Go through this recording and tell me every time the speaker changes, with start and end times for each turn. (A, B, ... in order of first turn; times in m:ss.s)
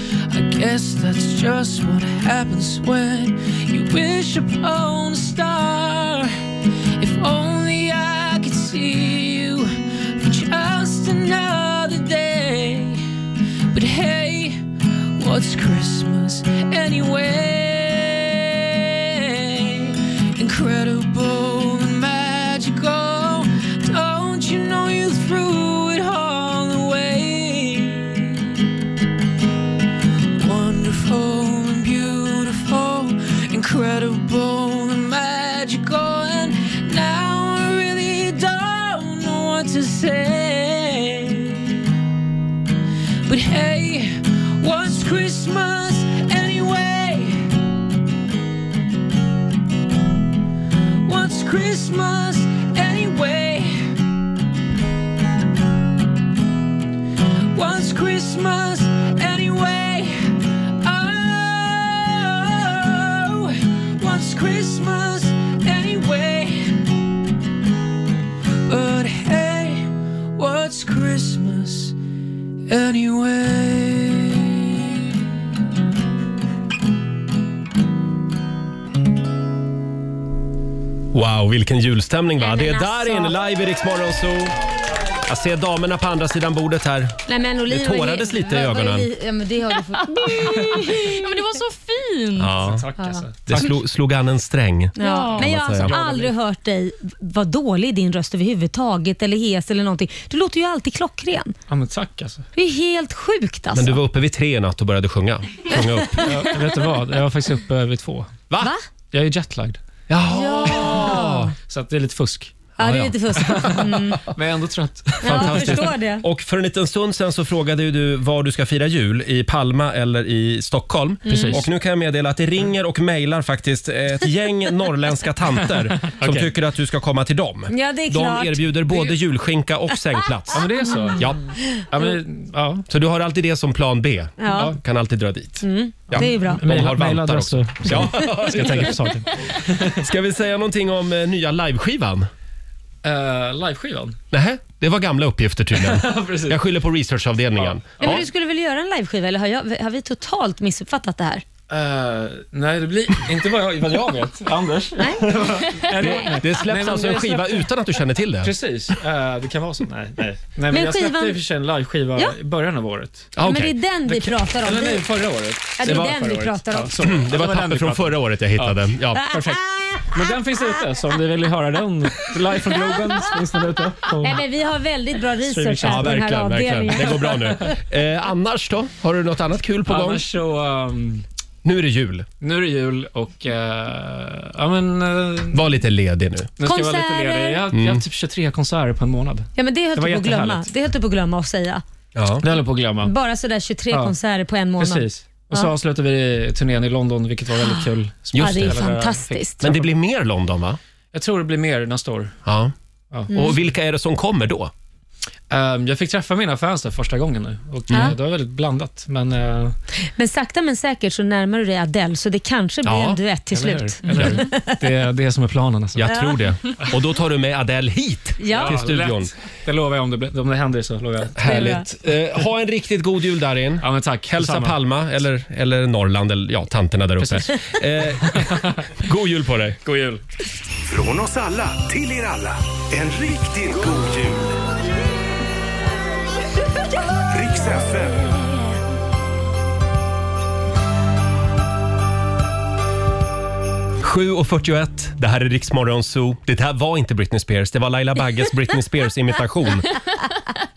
0:00.3-0:06.4 A
0:07.0-0:13.0 A
0:13.7-0:14.6 A
0:15.2-0:28.6 A
0:30.4-0:41.9 A
0:43.2-0:47.5 A
0:51.0-0:53.8 A
0:57.5-1:06.9 A
1:08.6-1:11.9 A
1:12.7-1:15.0 A
1:21.1-1:24.6 B
1:22.4-1:23.3 C
1:25.2-1:29.1 B
1:27.3-1:31.3 C
1:30.2-1:32.5 D
1:32.4-1:32.9 B
1:32.6-1:33.7 E
1:33.0-1:33.6 C
1:33.5-1:36.0 B
1:35.0-1:41.5 C
1:35.0-1:35.5 D
1:35.8-1:36.3 E
1:41.7-1:42.4 E
1:42.6-1:44.0 C
1:43.7-1:46.4 B
1:45.7-1:46.4 C
1:46.2-1:48.3 E
1:48.6-1:48.8 C
1:49.1-1:49.8 E
1:50.1-1:51.5 B
1:50.3-1:51.5 C
1:50.7-1:52.6 E
1:52.8-1:53.8 B
1:52.8-1:54.3 C
1:53.5-1:56.0 E
1:55.2-1:56.2 C
1:55.2-2:11.4 B
2:01.2-2:01.6 C
2:01.2-2:01.6 E
2:06.0-2:06.5 E
2:07.7-2:08.7 C
2:10.5-2:11.3 E
2:11.9-2:12.8 E
2:12.9-2:22.3 B
2:14.4-2:14.7 C
2:15.6-2:16.6 C
2:16.1-2:20.0 E
2:23.0-2:24.2 E
2:24.3-2:28.2 B
2:25.7-2:26.6 E
2:27.6-2:28.2 E
2:28.0-2:31.4 C
2:31.7-2:37.6 E
2:35.0-2:36.9 C
2:36.0-2:38.5 B
2:38.4-2:43.3 E
2:40.7-2:41.4 C
2:43.4-2:43.8 B
2:43.4-2:45.1 C
2:44.1-2:49.6 E
2:45.8-2:47.1 C
2:47.0-2:49.4 B
2:49.3-2:50.2 C
2:50.1-2:54.4 E
2:54.2-2:57.8 C
2:55.4-2:56.4 E
2:55.8-3:00.2 B
2:56.9-2:57.6 E
2:59.8-3:01.2 E
3:01.6-3:02.3 B
3:02.4-3:05.7 E
3:05.5-3:06.5 B
3:06.6-3:10.7 E
3:06.6-3:07.6 C
3:07.7-3:08.0 B
3:09.6-3:11.8 C
3:12.1-3:12.4 B
3:12.4-3:13.1 E
3:13.0-3:15.7 C
3:13.9-3:14.2 E
3:14.8-3:19.8 E
3:18.3-3:18.9 B
3:18.4-3:19.7 C
3:19.6-3:20.8 B
3:21.1-3:22.4 E
3:22.4-3:22.7 B
3:23.3-3:23.6 C
3:23.3-3:24.7 B
3:25.5-3:29.8 E
3:27.9-3:28.2 C
3:30.2-3:34.9 C
3:32.8-3:33.2 B
3:33.5-3:36.1 E
3:34.1-3:34.4 B
3:36.0-3:39.3 B
3:36.0-3:36.8 C
3:38.4-3:38.8 C
3:38.5-3:41.8 E
3:41.4-3:49.8 B
3:41.4-3:41.8 C
3:43.8-3:44.8 E
3:47.2-3:47.5 E
3:48.2-3:48.8 E
3:49.8-3:50.2 E
3:50.8-3:54.7 F
3:57.3-3:58.4 F
4:04.0-4:10.0 B